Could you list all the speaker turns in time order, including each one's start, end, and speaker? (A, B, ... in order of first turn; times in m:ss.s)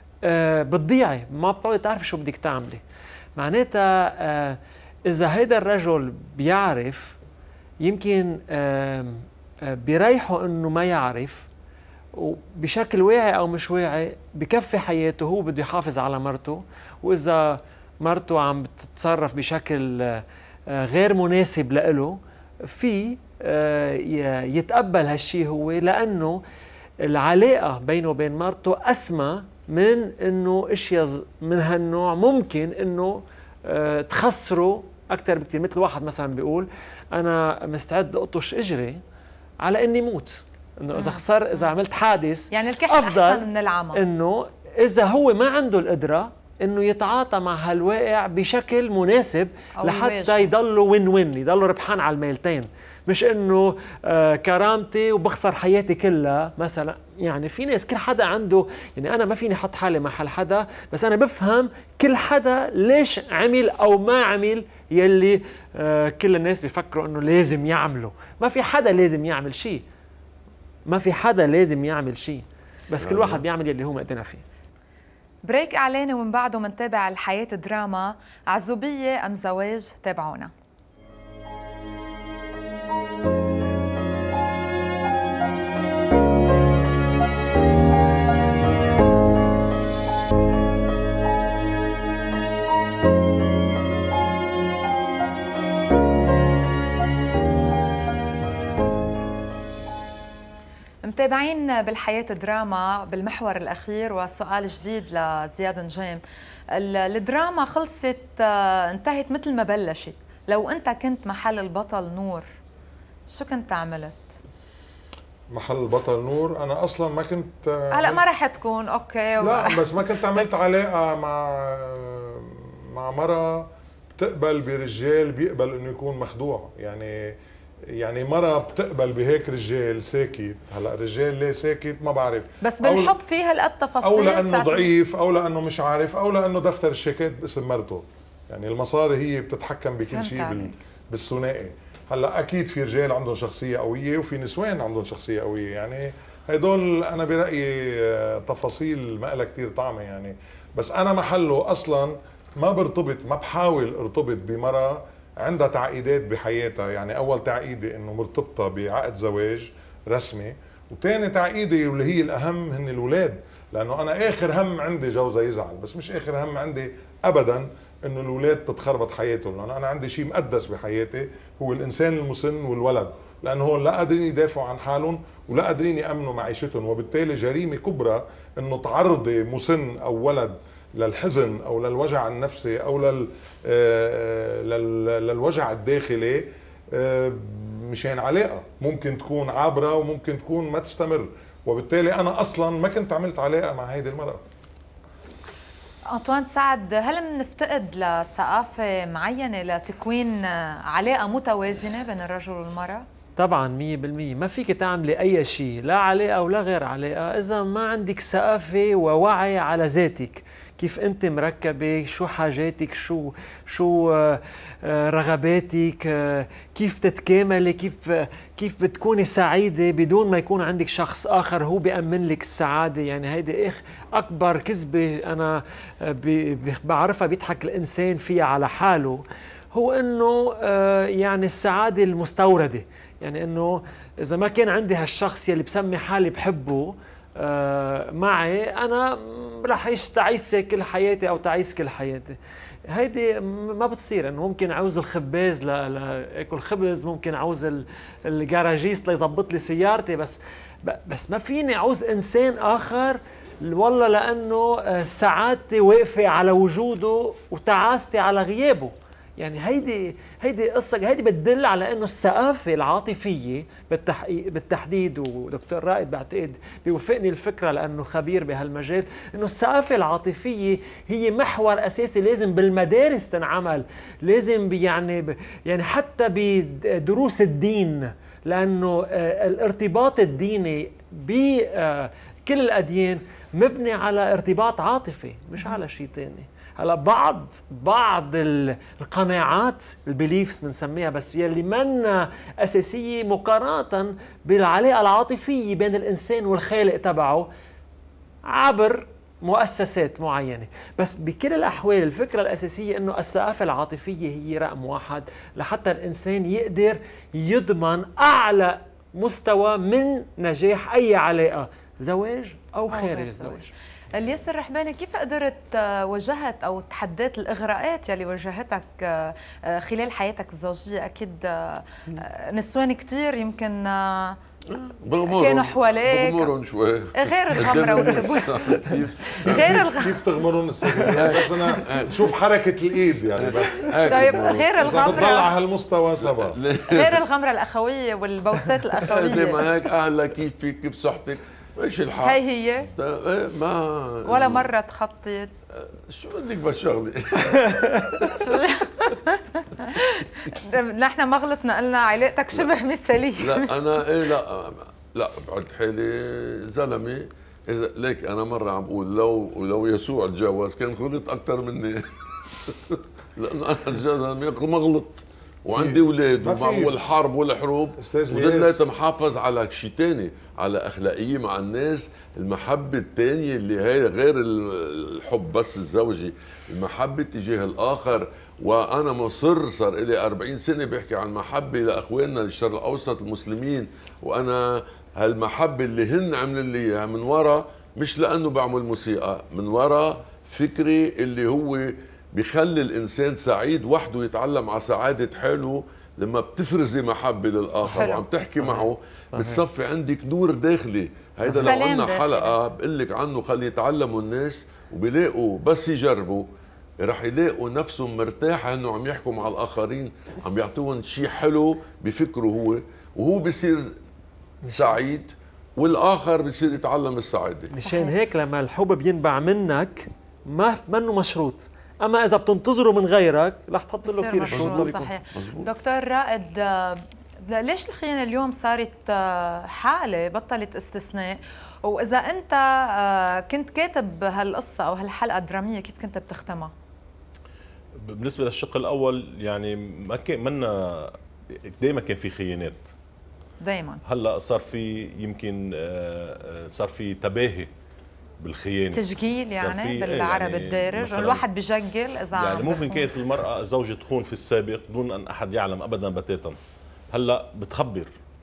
0:00.2-0:02.8 A
0:03.4-0:07.2 A
0:07.8-0:11.4 A
0:12.2-0:26.4 A
0:27.1-0:39.0 A
0:39.6-1:09.8 A
0:40.9-0:41.7 B
0:42.5-0:44.0 B
0:49.8-0:50.5 B
1:10.9-1:14.4 A
1:13.0-1:13.4 C
1:15.5-1:20.5 B
1:41.0-1:46.2 B
1:46.7-1:52.4 B
1:53.3-1:54.2 B
1:55.5-1:58.2 D
1:57.9-2:00.5 B
1:59.4-2:07.3 D
2:08.0-2:13.2 D
2:12.6-2:14.9 B
2:14.0-3:14.4 D
2:20.1-2:20.7 B
3:16.1-3:23.0 B
3:23.4-3:49.2 A
3:49.7-4:02.4 A
4:02.9-4:57.5 A
4:58.5-5:13.7 A
5:12.9-5:24.4 B
5:24.7-5:30.0 C
5:25.2-5:26.5 B
5:27.2-5:28.8 B
5:29.4-5:30.2 B
5:29.4-5:36.6 D
5:31.0-5:32.3 C
5:33.3-5:35.4 C
5:34.1-5:35.5 B
5:36.2-5:37.2 C
5:36.9-5:39.6 B
5:39.1-5:44.7 C
5:42.2-5:42.9 B
5:44.3-5:45.5 B
5:45.8-5:47.7 C
5:47.5-5:48.0 A
5:48.3-5:53.7 B
5:53.4-6:02.0 C
6:02.7-6:46.4 C
6:05.8-6:07.0 D
6:08.0-6:08.8 D
6:37.8-6:38.2 B
6:41.4-6:42.5 B
6:47.0-6:53.9 C
6:54.6-6:57.7 C
6:54.7-6:55.0 A
6:57.7-7:05.1 A
6:57.8-6:58.2 B
7:04.0-7:16.7 B
7:04.5-7:05.7 C
7:18.0-7:21.2 E
7:21.8-7:22.9 E
7:23.6-7:24.0 B
7:24.0-7:27.7 E
7:28.4-7:31.4 E
7:28.9-7:33.1 B
7:32.3-7:36.6 E
7:37.1-7:38.1 E